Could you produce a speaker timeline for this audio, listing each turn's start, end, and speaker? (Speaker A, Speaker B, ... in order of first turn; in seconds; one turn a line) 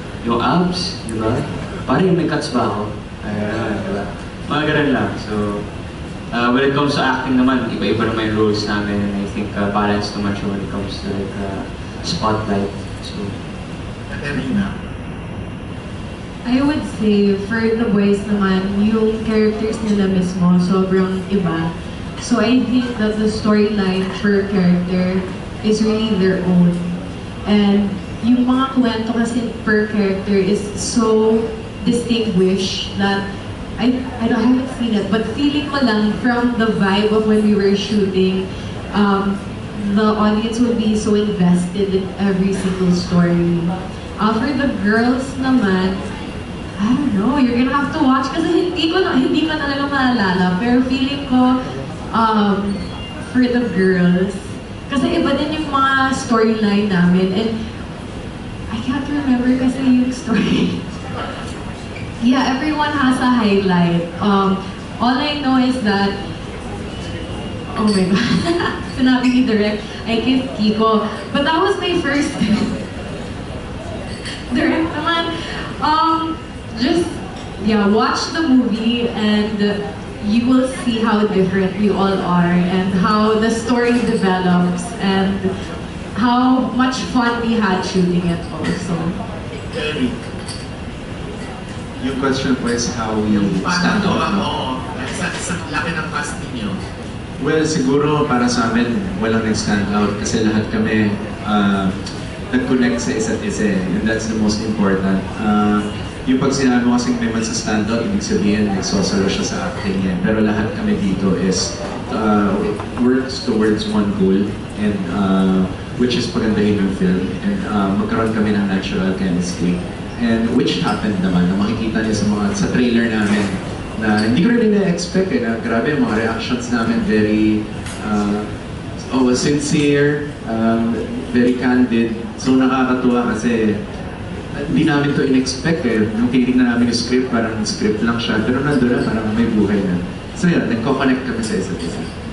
Speaker A: 0.2-5.6
Speaker A: 6.3-13.3
Speaker B: 14.1-14.8
Speaker C: 16.4-33.2
Speaker C: 33.8-46.0
Speaker C: 46.8-57.5
Speaker C: 58.7-60.8
Speaker C: 62.2-66.2
Speaker C: 67.7-72.8
Speaker C: 74.5-85.5
Speaker C: 86.2-89.2
Speaker B: 89.7-90.2
Speaker D: 92.0-94.5
Speaker B: 93.3-96.8
Speaker D: 97.4-102.0
Speaker D: 102.5-128.5
Speaker D: 129.0-133.8
Speaker D: 134.6-142.1